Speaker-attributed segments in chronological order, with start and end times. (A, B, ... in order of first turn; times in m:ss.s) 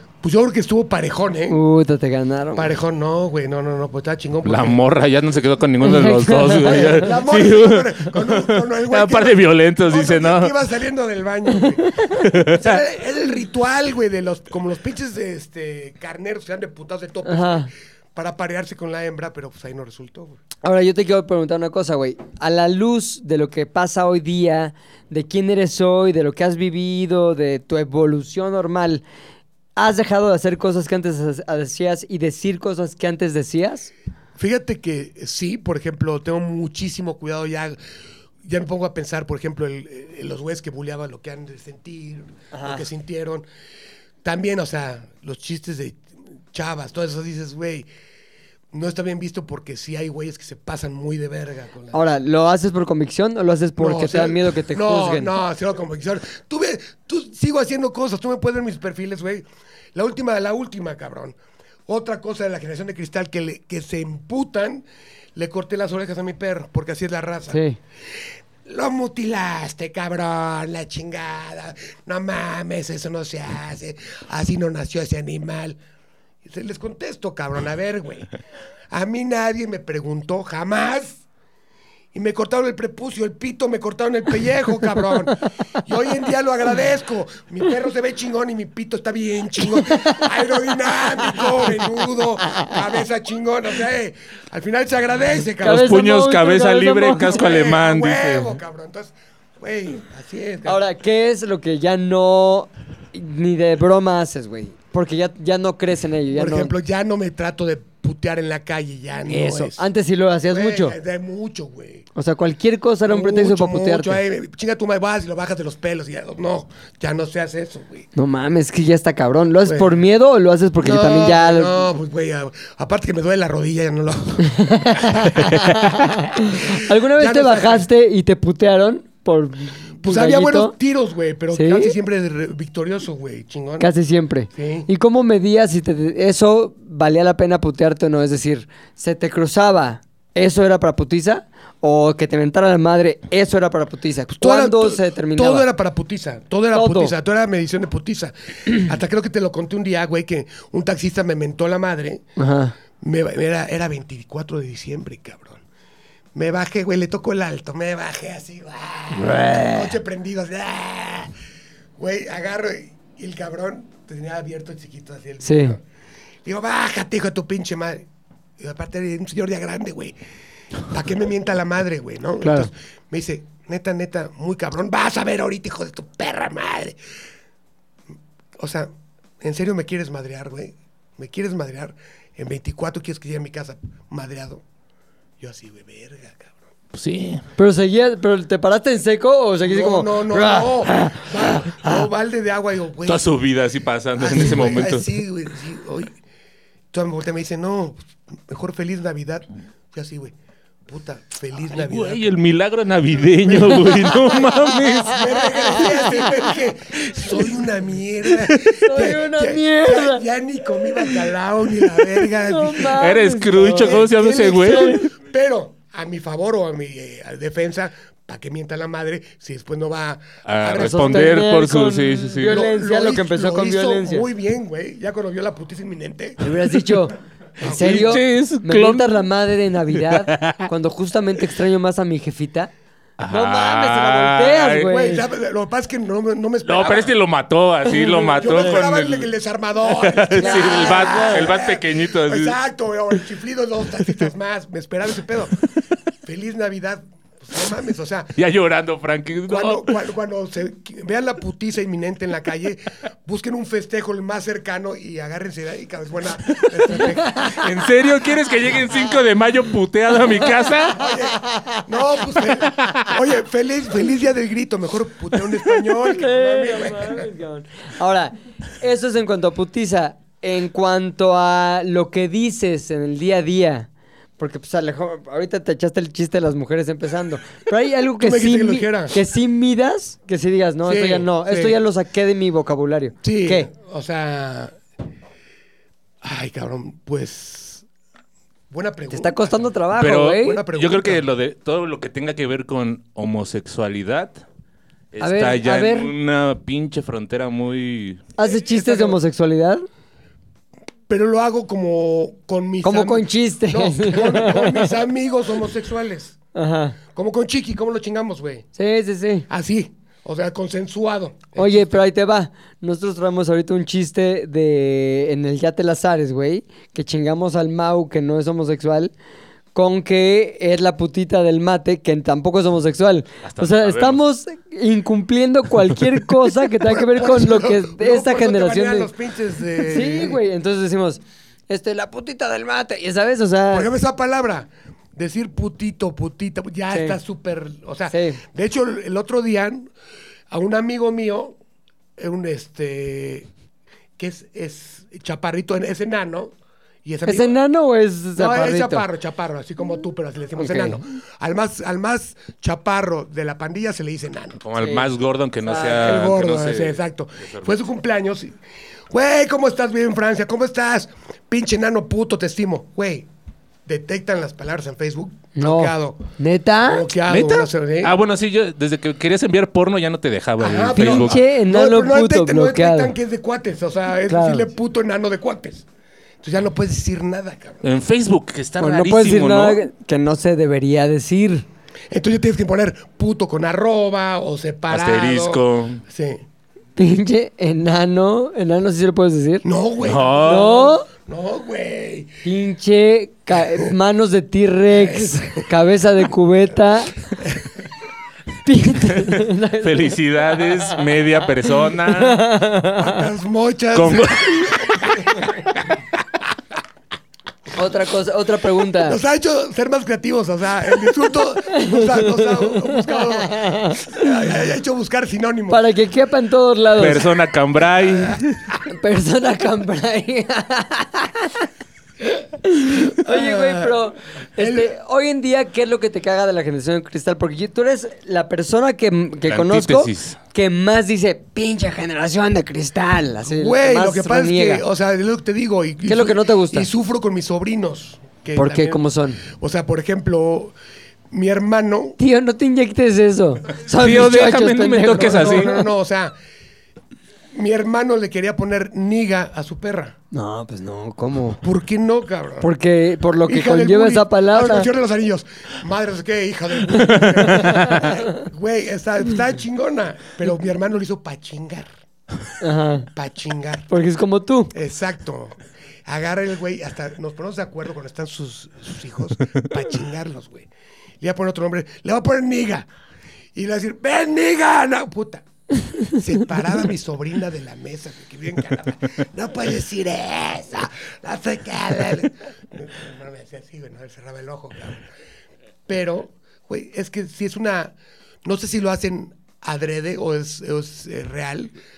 0:00.2-0:01.6 A
0:01.5-0:02.7 B
0:02.5-0:04.8 A
0:04.4-0:10.6 C
0:05.8-0:07.1 B
0:06.6-0:20.4 A
0:11.6-0:12.1 B
0:12.1-0:12.8 C
0:17.2-0:17.7 B
0:20.6-0:29.0 B
0:29.8-0:33.9 B
0:34.4-0:37.8 A
0:38.4-0:43.4 A
0:42.5-0:42.8 B
0:44.2-0:47.9 A
0:48.7-0:52.0 A
0:51.9-0:55.4 B
0:53.8-1:04.8 A
1:05.4-1:07.6 A
1:07.5-1:07.8 B
1:08.6-1:15.8 A
1:16.4-1:18.3 A
1:18.9-1:21.2 A
1:22.1-1:36.0 A
1:35.6-1:37.6 B
1:35.6-1:38.6 C
1:37.2-1:40.8 A
1:40.6-1:46.7 B
1:46.3-1:49.8 A
1:49.3-1:51.0 B
1:50.5-1:52.1 A
1:52.1-1:54.2 B
1:53.1-1:58.1 A
1:58.1-2:01.8 B
1:59.6-2:00.0 A
2:00.8-2:07.9 A
2:04.4-2:10.7 B
2:10.0-2:13.9 A
2:11.5-2:12.0 B
2:13.8-2:25.7 B
2:14.5-2:14.9 A
2:24.3-2:32.3 A
2:26.7-2:27.1 B
2:32.4-2:32.7 B
2:33.0-2:35.6 A
2:36.4-2:41.3 A
2:39.1-2:40.0 B
2:42.0-2:45.8 A
2:45.4-2:45.8 B
2:46.4-2:48.0 A
2:48.6-2:50.2 A
2:50.8-2:57.0 A
2:52.4-2:52.7 B
2:58.6-2:58.9 A
2:59.4-3:04.6 A
3:05.4-3:06.6 A
3:06.9-3:07.4 C
3:07.6-3:12.0 B
3:09.6-3:13.3 A
3:13.1-3:15.1 C
3:14.2-3:16.1 A
3:16.9-3:20.4 A
3:20.9-3:22.3 A
3:21.7-3:25.9 C
3:23.5-3:41.4 A
3:24.4-3:24.8 B
3:25.3-3:26.3 B
3:28.6-3:30.2 B
3:30.8-3:31.2 B
3:32.2-3:34.1 B
3:32.9-3:35.1 C
3:34.6-3:35.1 B
3:40.4-3:42.6 C
3:40.8-3:44.3 B
3:42.4-3:46.6 A
3:46.4-3:52.7 B
3:47.6-3:48.2 A
3:47.6-3:49.2 C
3:49.9-3:50.7 C
3:53.2-3:54.9 C
3:53.3-3:55.2 B
3:54.9-3:57.1 A
3:56.6-3:59.3 C
3:57.9-3:58.8 B
3:58.4-4:05.6 A
3:59.9-4:02.6 C
4:00.4-4:01.6 B
4:06.2-4:08.3 A
4:08.4-4:09.9 C
4:09.5-4:17.9 A
4:17.4-4:21.0 C
4:20.9-4:27.3 A
4:25.9-4:43.7 B
4:38.2-4:39.2 A
4:40.8-4:41.8 A
4:43.2-4:44.8 A
4:46.2-4:47.8 A
4:48.7-4:51.3 A
4:49.1-4:50.6 B
4:50.0-4:54.3 C
4:55.1-4:58.2 C
4:55.2-4:56.1 B
4:58.4-4:59.8 B
4:58.4-4:59.2 A
5:01.1-5:06.4 A
5:02.8-5:04.9 B
5:06.6-5:07.0 B
5:07.1-5:08.7 A
5:08.8-5:09.5 B
5:09.5-5:12.0 A
5:11.6-5:19.1 B
5:19.7-5:29.1 B
5:23.4-5:24.2 C
5:26.8-5:30.4 A
5:29.8-5:33.9 B
5:33.7-5:39.9 A
5:36.9-5:37.2 B
5:38.1-5:38.4 B
5:40.5-5:41.6 A
5:42.2-5:43.5 A
5:44.2-5:46.5 A
5:47.0-5:47.5 A
5:47.2-5:49.1 B
5:48.4-5:54.6 A
5:50.6-5:51.0 B
5:54.6-5:57.7 C
5:54.8-5:55.1 B
5:55.7-5:58.6 A
5:59.1-6:03.3 A
6:03.9-6:06.2 A
6:05.6-6:07.1 B
6:06.8-6:08.1 A
6:07.3-6:11.4 C
6:10.6-6:15.9 A
6:10.9-6:13.1 B
6:14.3-6:14.7 B
6:16.4-6:17.8 A
6:17.8-6:19.8 C
6:18.8-6:21.6 B
6:22.1-6:26.4 A
6:24.9-6:26.0 C
6:27.0-6:29.6 B
6:29.6-6:32.3 A
6:30.0-6:30.9 C
6:30.4-6:31.1 B
6:32.4-6:37.1 B
6:33.6-6:33.9 A
6:34.9-6:35.7 A
6:38.6-6:40.2 B
6:39.2-6:42.5 C
6:42.1-6:43.2 B
6:43.0-6:46.0 A
6:43.9-6:45.1 C
6:47.7-6:49.2 B
6:49.0-6:55.9 A
6:51.7-6:54.3 B
6:55.7-6:57.3 B
6:57.0-6:58.7 C
6:58.9-7:01.6 B
7:02.6-7:14.8 B
7:03.1-7:04.0 A
7:04.6-7:04.9 A
7:09.5-7:10.4 C
7:13.4-7:20.7 A
7:16.1-7:16.9 B
7:18.6-7:19.4 B
7:21.3-7:22.2 A
7:22.2-7:25.8 B
7:23.9-7:25.7 C
7:25.1-7:26.4 A
7:27.5-7:30.1 A
7:30.3-7:31.6 B
7:31.6-7:32.7 A
7:32.6-7:34.9 B
7:33.4-7:41.9 A
7:37.0-7:38.1 C
7:37.4-7:38.4 B
7:42.6-7:43.1 B
7:43.1-7:43.9 A
7:43.9-7:44.7 B
7:44.7-7:50.7 A
7:51.2-7:52.9 A
7:53.6-7:55.4 A
7:56.0-8:05.1 A
8:05.9-8:11.7 A